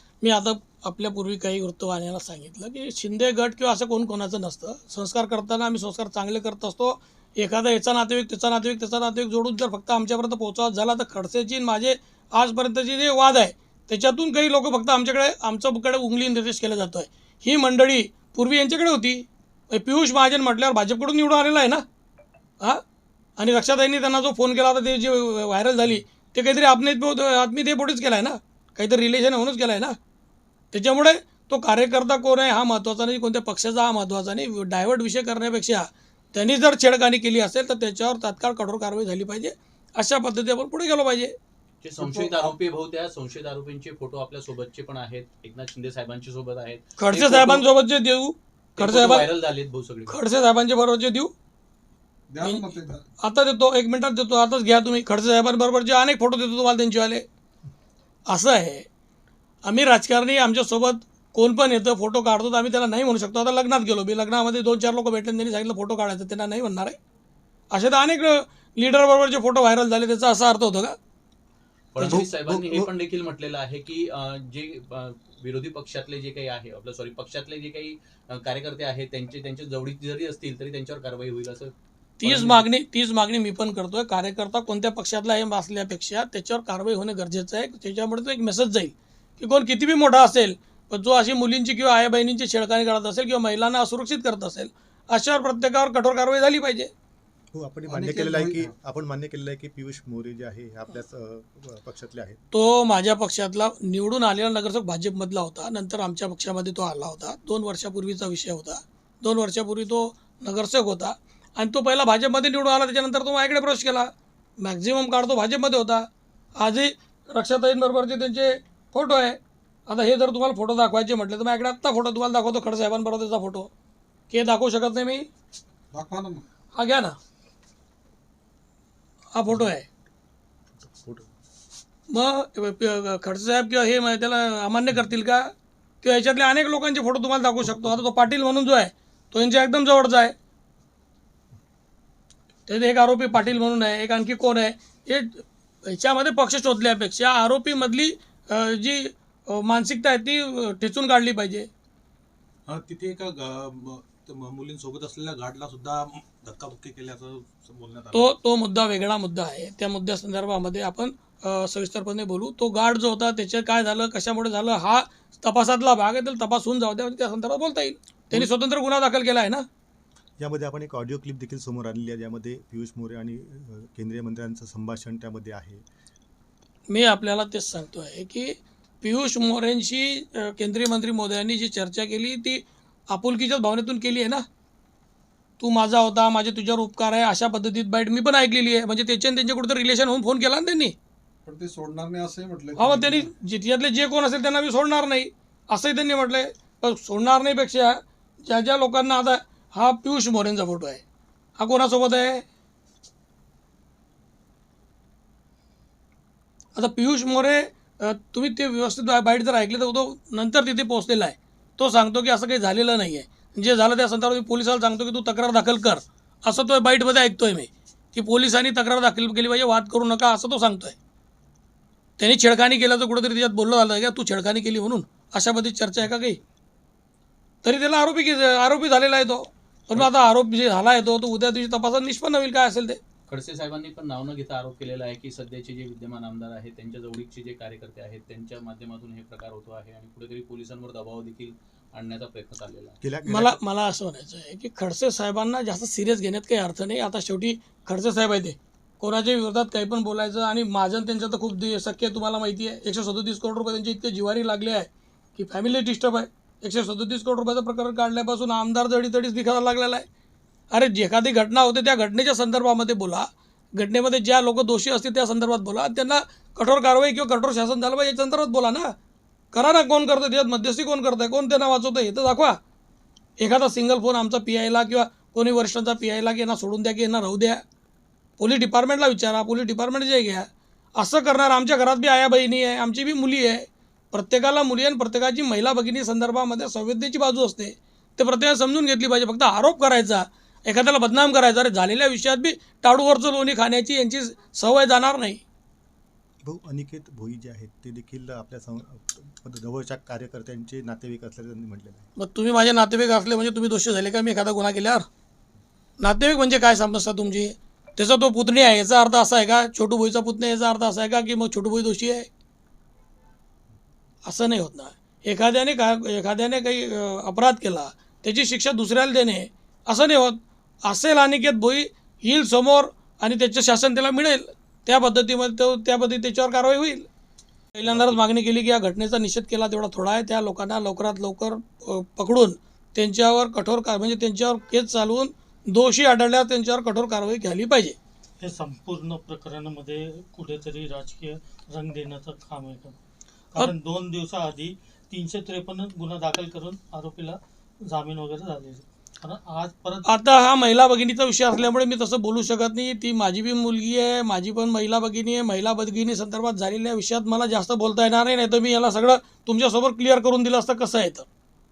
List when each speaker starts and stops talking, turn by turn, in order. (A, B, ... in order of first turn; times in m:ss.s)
0:00.2-0:21.8 A
0:23.4-0:30.0 A
0:30.7-0:41.3 A
0:41.8-0:47.7 B
0:42.0-0:42.5 C
0:47.0-0:49.3 A
0:48.8-0:50.2 B
0:50.1-0:51.3 A
0:52.3-0:53.0 C
0:52.4-0:52.7 A
0:53.2-0:57.2 A
0:58.3-0:58.8 A
0:59.6-1:07.0 A
1:07.7-1:11.0 A
1:11.9-1:22.7 B
1:12.0-1:12.9 D
1:22.2-1:36.9 A
1:37.5-1:42.4 D
1:37.9-1:38.7 C
1:42.5-2:03.7 A
2:04.3-2:05.3 A
2:05.9-2:06.4 C
2:06.7-2:07.1 A
2:09.3-2:09.9 A
2:10.8-2:11.3 D
2:12.1-2:20.3 A
2:22.7-2:31.7 A
2:32.7-2:38.2 E
2:38.1-2:49.6 A
2:50.4-2:55.8 D
2:56.9-3:04.4 A
3:05.6-3:10.9 A
3:11.4-3:13.3 C
3:12.8-3:21.0 A
3:21.6-3:22.4 A
3:26.8-3:41.0 A
3:42.2-3:46.4 A
3:47.6-3:53.0 A
3:53.3-4:03.0 B
4:03.0-4:03.6 D
4:03.2-4:20.0 A
4:20.7-4:28.9 A
4:29.5-4:32.6 A
4:33.4-4:37.6 A
4:38.4-4:55.4 A
4:56.4-5:02.1 D
5:02.2-5:05.0 A
5:06.0-5:12.3 A
5:14.2-5:27.1 A
5:27.7-5:38.0 A
5:38.4-5:43.0 F
5:43.5-5:50.1 F
5:50.0-6:01.3 A